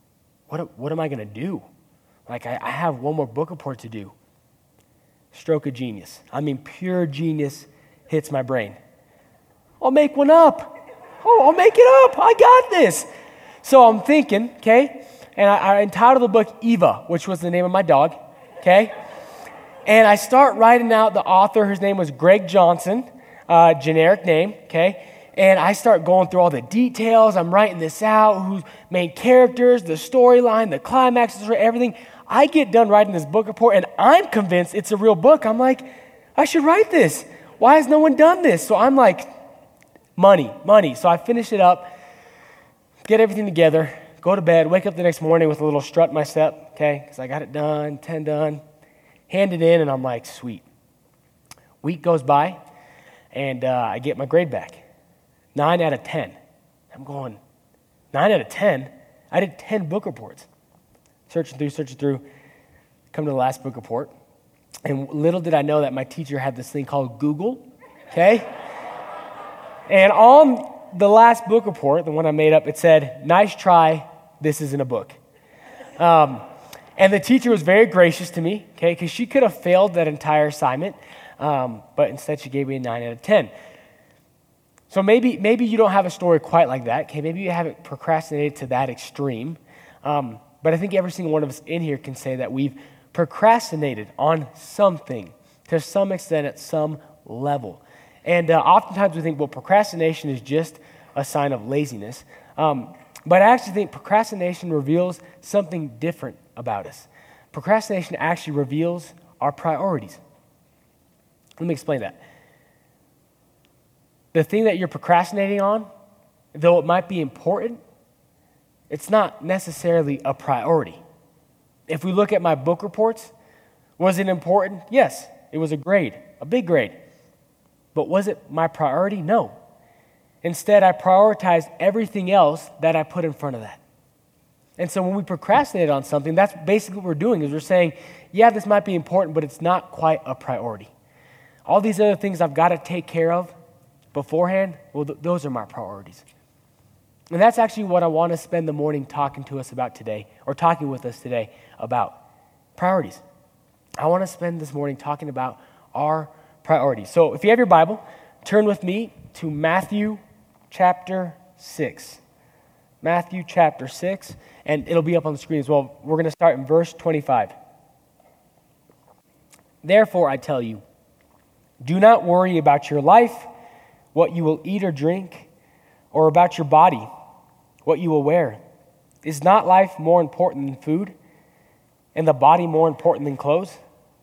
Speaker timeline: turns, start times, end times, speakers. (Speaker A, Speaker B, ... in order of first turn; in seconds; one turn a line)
Speaker A: 0.5-1.7
Speaker A: 2.3-4.1
Speaker A: 5.3-8.8
Speaker A: 9.8-13.1
Speaker A: 13.6-18.9
Speaker A: 19.9-39.3
Speaker A: 40.2-41.9
Speaker A: 43.0-48.6
Speaker A: 49.3-50.6
Speaker A: 51.8-52.6
Speaker A: 53.3-54.8
Speaker A: 55.5-56.4
Speaker A: 56.9-57.4
Speaker A: 58.1-60.5
Speaker A: 61.3-62.2
Speaker A: 63.1-64.1
Speaker A: 64.8-68.5
Speaker A: 69.9-75.2
Speaker A: 76.0-76.4
Speaker A: 77.0-83.5
Speaker A: 84.9-110.2
Speaker A: 111.6-112.2
Speaker A: 114.3-115.9
Speaker A: 116.5-117.8
Speaker A: 118.9-121.0
Speaker A: 121.9-123.3
Speaker A: 124.0-127.0
Speaker A: 127.9-129.6
Speaker A: 130.4-133.8
Speaker A: 134.8-140.9
Speaker A: 141.7-143.5
Speaker A: 144.1-146.2
Speaker A: 147.3-152.2
Speaker A: 152.8-153.2
Speaker A: 154.0-162.2
Speaker A: 163.0-167.5
Speaker A: 169.8-170.8
Speaker A: 171.8-173.5
Speaker A: 174.1-175.5
Speaker A: 176.1-177.1
Speaker A: 177.8-178.6
Speaker A: 179.2-181.2
Speaker A: 182.2-183.8